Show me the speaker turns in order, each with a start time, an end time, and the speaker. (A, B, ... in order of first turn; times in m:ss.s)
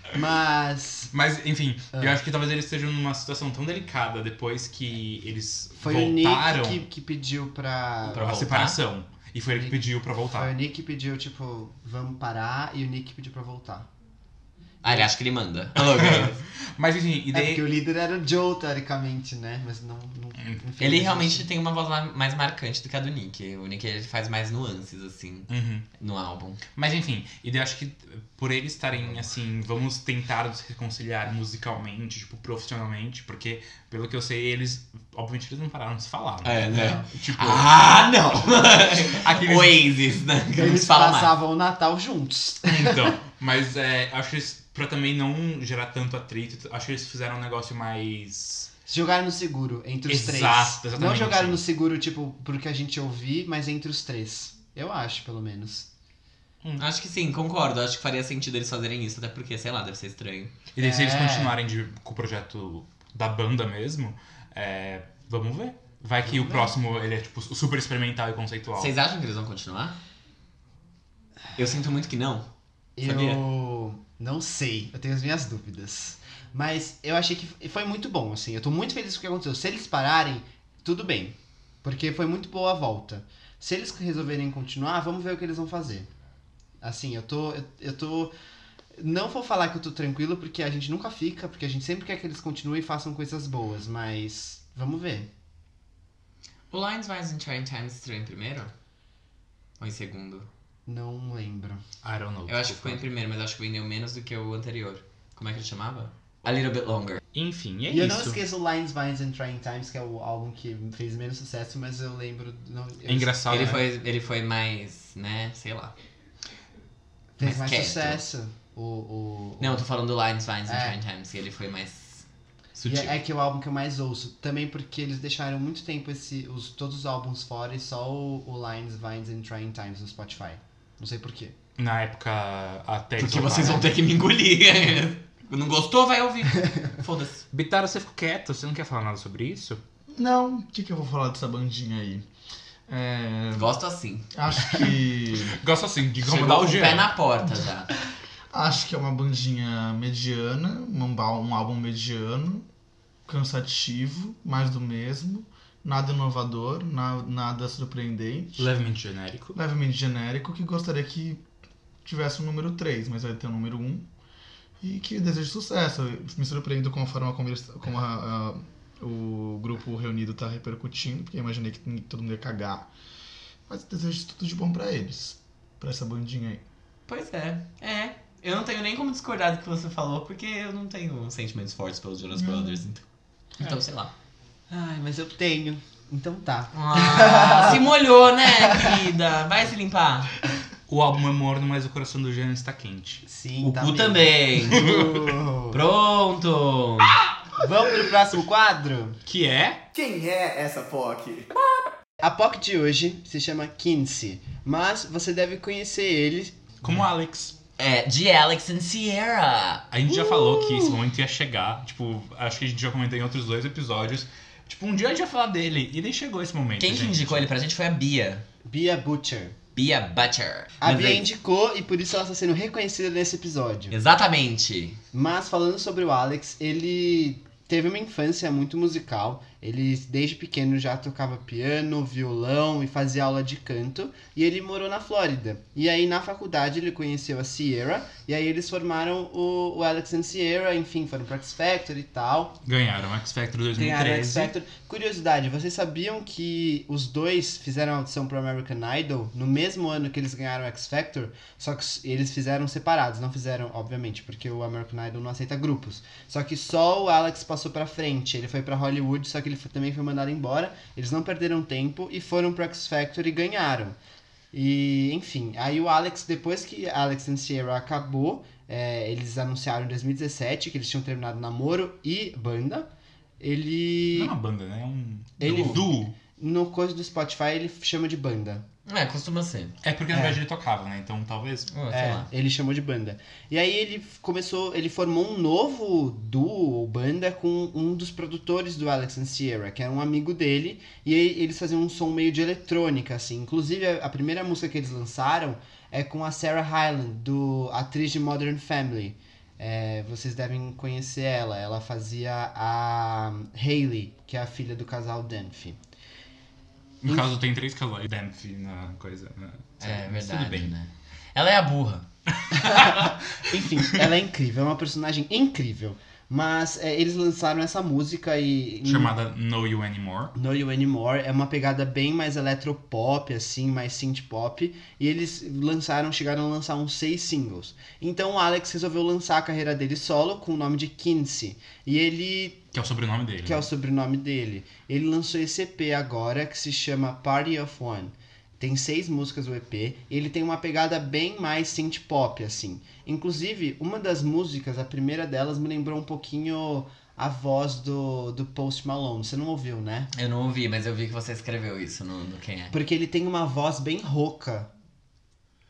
0:00.1-0:01.1 A
0:01.1-0:06.8 B
0:05.8-0:08.3 A
0:08.1-0:08.8 C
0:08.1-0:10.5 B
0:10.3-0:13.9 A
0:14.8-0:16.5 C
0:15.8-0:17.7 B
0:17.3-0:21.5 A
0:20.8-0:26.6 C
0:25.5-0:25.9 B
0:26.8-0:37.8 B
0:36.4-0:41.3 C
0:38.3-0:39.8 B
0:40.5-0:43.1 A
0:42.6-0:48.7 B
0:48.9-0:55.9 A
0:50.1-0:51.6 B
0:56.8-1:00.6 C
1:00.7-1:09.0 B
1:00.8-1:01.6 A
1:06.2-1:06.7 A
1:08.8-1:10.0 C
1:11.6-1:12.5 C
1:13.0-1:26.1 A
1:13.0-1:13.4 C
1:26.8-1:28.3 A
1:29.0-1:35.3 A
1:36.7-1:38.7 C
1:39.8-1:40.5 C
1:40.9-1:41.8 A
1:42.0-1:43.1 B
1:42.5-1:47.2 C
1:47.3-1:48.4 B
1:47.9-1:53.5 A
1:53.1-1:53.9 B
1:53.5-1:55.9 C
1:57.4-1:59.9 A
1:57.4-1:58.2 C
1:59.6-2:02.2 C
2:00.7-2:01.0 A
2:02.8-2:03.2 C
2:02.8-2:11.6 A
2:11.8-2:14.0 B
2:13.2-2:17.4 C
2:17.5-2:19.8 B
2:20.1-2:22.2 D
2:22.9-2:23.8 D
2:23.6-2:24.3 C
2:24.3-2:25.6 D
2:24.9-2:27.1 B
2:26.2-2:27.9 C
2:28.5-2:32.6 D
2:33.3-2:38.7 D
2:38.6-2:39.6 B
2:39.6-2:41.4 D
2:42.0-2:44.1 D
2:44.8-2:52.9 D
2:53.7-2:56.6 D
2:57.1-3:03.0 C
3:02.4-3:02.8 D
3:03.6-3:04.1 C
3:04.7-3:07.9 A
3:06.7-3:10.3 C
3:08.6-3:09.0 A
3:10.9-3:13.7 B
3:13.3-3:15.8 A
3:13.7-3:14.9 C
3:14.6-3:15.4 B
3:15.7-3:17.2 C
3:17.6-3:19.2 A
3:19.3-3:19.8 B
3:19.9-3:21.5 D
3:22.2-3:26.6 A
3:26.8-3:27.6 B
3:27.8-3:31.0 C
3:29.9-3:37.5 B
3:36.8-3:38.4 C
3:38.7-3:39.6 A
3:39.8-3:41.3 C
3:40.8-3:44.0 A
3:43.9-3:45.0 C
3:45.1-4:02.6 A
4:02.6-4:04.5 B
4:03.8-4:24.0 A
4:24.5-4:32.9 A
4:33.4-4:34.3 A
4:34.1-4:36.2 B
4:35.4-4:38.6 A
4:35.4-4:35.8 C
4:38.9-4:39.8 C
4:39.8-4:41.7 B
4:40.1-4:40.4 A
4:41.7-4:42.3 C
4:41.9-5:05.8 A
5:07.0-5:10.7 B
5:09.8-5:12.1 C
5:12.5-5:19.1 A
5:12.5-5:13.1 B
5:18.8-5:20.3 B
5:20.4-5:32.6 A
5:32.7-5:33.7 B
5:33.4-5:50.1 A
5:50.1-5:52.7 C
5:52.7-5:54.7 A